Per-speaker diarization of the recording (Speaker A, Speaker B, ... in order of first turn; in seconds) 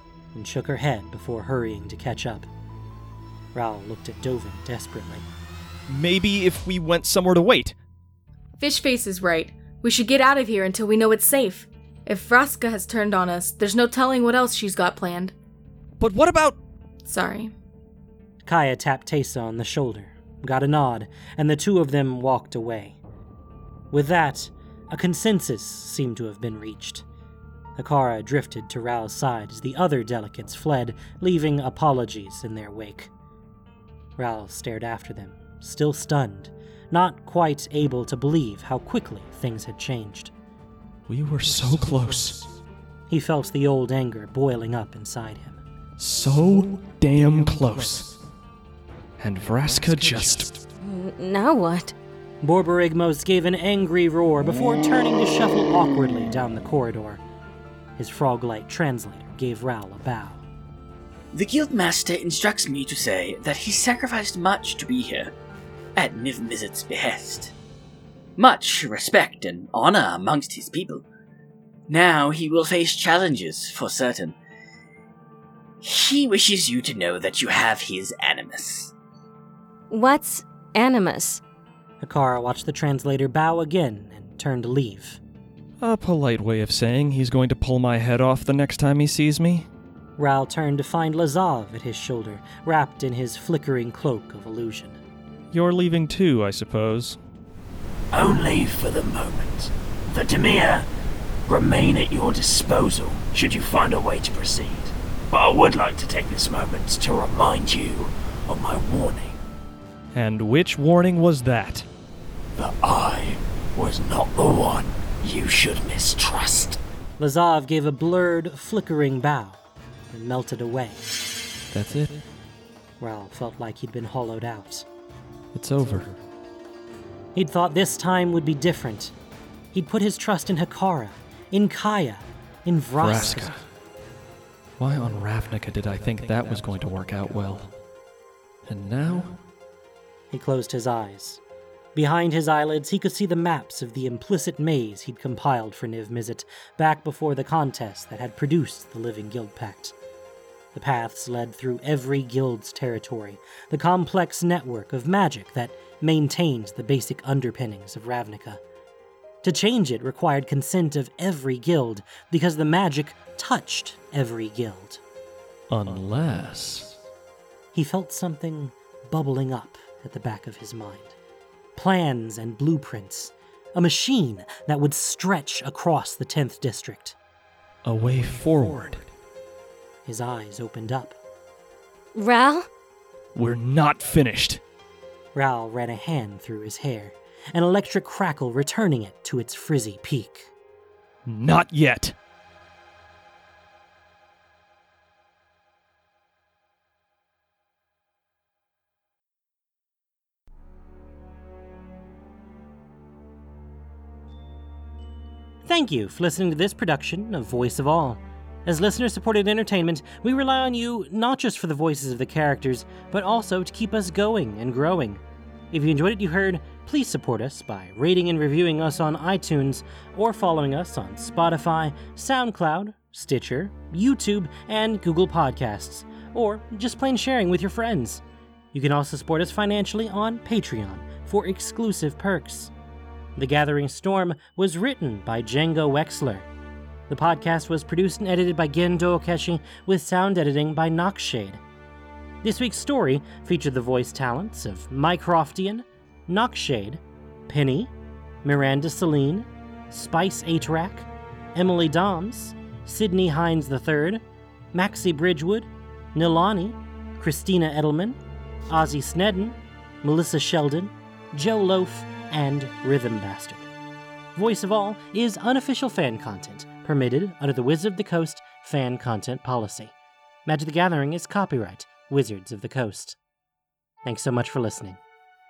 Speaker A: 0.3-2.5, 3.5-5.2, 18.4-23.0, 23.9-27.0, 27.8-33.1, 34.2-40.3, 43.1-45.6, 52.4-57.2, 58.0-60.4, 82.0-85.2, 90.2-95.0, 117.2-119.6, 120.1-121.0, 123.0-124.8, 127.3-129.1, 129.7-133.5, 140.3-141.4, 141.9-149.9, 150.7-158.6, 159.4-165.0, 167.7-171.1, 171.8-177.1, 180.1-181.2, 185.3-190.5, 205.6-232.7, 233.3-236.5, 237.1-241.6, 242.4-247.9, 248.4-254.2, 254.7-258.2, 258.7-263.7, 264.4-269.9, 270.4-273.2, 274.0-275.0
Speaker B: 5.9-7.8, 16.0-16.6, 41.1-42.5, 46.0-48.1, 49.2-50.6, 85.8-89.7, 95.5-97.2, 110.1-111.8, 121.7-122.2, 125.5-126.2, 133.0-133.7, 134.8-137.7, 138.7-139.4, 165.7-166.9, 177.8-179.1, 183.3-184.6, 191.2-192.1
Speaker C: 8.6-15.3, 17.0-17.5
Speaker D: 50.8-51.9, 79.9-81.4, 182.1-182.7
Speaker E: 61.3-65.3, 66.0-67.5, 68.4-71.0, 71.9-74.3, 75.8-78.9
Speaker F: 98.1-100.9, 101.5-109.4, 112.5-116.8